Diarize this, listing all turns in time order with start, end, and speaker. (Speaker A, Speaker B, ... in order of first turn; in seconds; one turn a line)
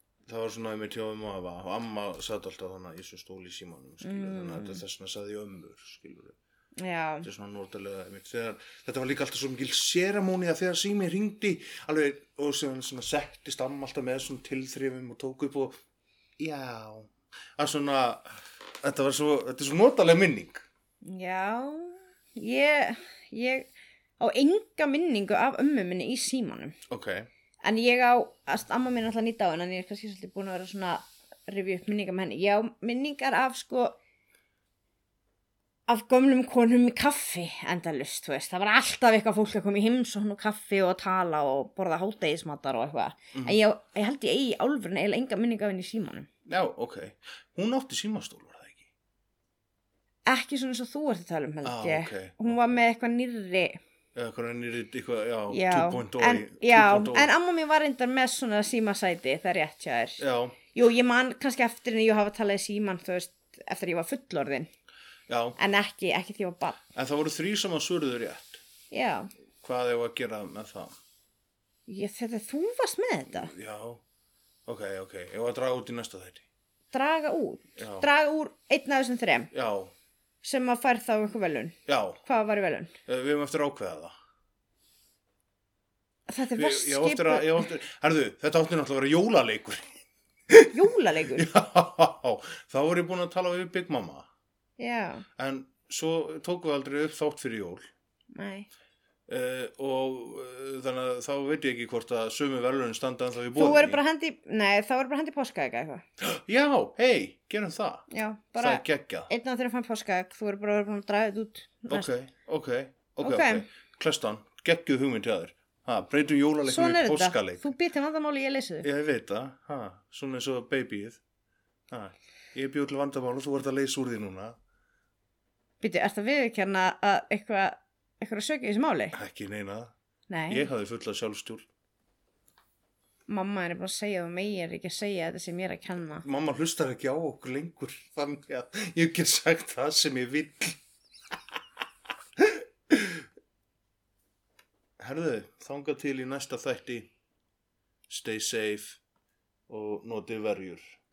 Speaker A: 0.3-6.3
Speaker B: 4.0-4.8
Speaker B: 6.8-7.3
Speaker A: 7.2-15.8
Speaker A: 16.4-20.6
Speaker B: 21.0-23.7
Speaker B: 24.2-26.8
Speaker A: 26.9-27.3
Speaker B: 27.6-34.0
Speaker B: 35.9-46.3
Speaker A: 43.3-43.6
Speaker A: 46.5-48.9
Speaker B: 50.2-53.8
Speaker A: 51.6-52.7
Speaker A: 54.1-57.3
Speaker B: 55.5-64.7
Speaker A: 60.2-60.6
Speaker A: 65.3-65.6
Speaker B: 65.6-66.8
Speaker A: 66.9-68.6
Speaker B: 68.9-69.3
Speaker A: 69.6-70.9
Speaker B: 71.9-73.5
Speaker A: 73.3-74.0
Speaker A: 74.7-76.5
Speaker B: 76.9-79.5
Speaker A: 77.8-78.1
Speaker A: 79.5-79.9
Speaker B: 80.4-82.9
Speaker A: 81.8-82.2
Speaker A: 83.0-84.1
Speaker B: 86.3-87.7
Speaker A: 86.5-89.8
Speaker A: 90.5-90.8
Speaker B: 90.7-91.5
Speaker A: 91.3-94.3
Speaker B: 94.8-95.2
Speaker A: 95.4-97.9
Speaker B: 98.3-98.7
Speaker A: 99.3-104.0
Speaker B: 103.5-106.0
Speaker A: 106.2-108.1
Speaker B: 108.1-112.1
Speaker A: 108.6-109.3
Speaker A: 111.9-117.7
Speaker B: 113.2-113.7
Speaker B: 116.7-118.9
Speaker A: 118.8-121.2
Speaker A: 121.9-124.5
Speaker B: 125.8-129.1
Speaker A: 129.1-129.9
Speaker B: 130.3-130.7
Speaker A: 130.5-131.7
Speaker B: 133.3-136.2
Speaker A: 136.2-140.8
Speaker A: 142.4-143.2
Speaker A: 145.0-147.1
Speaker A: 148.1-149.0
Speaker A: 149.7-151.0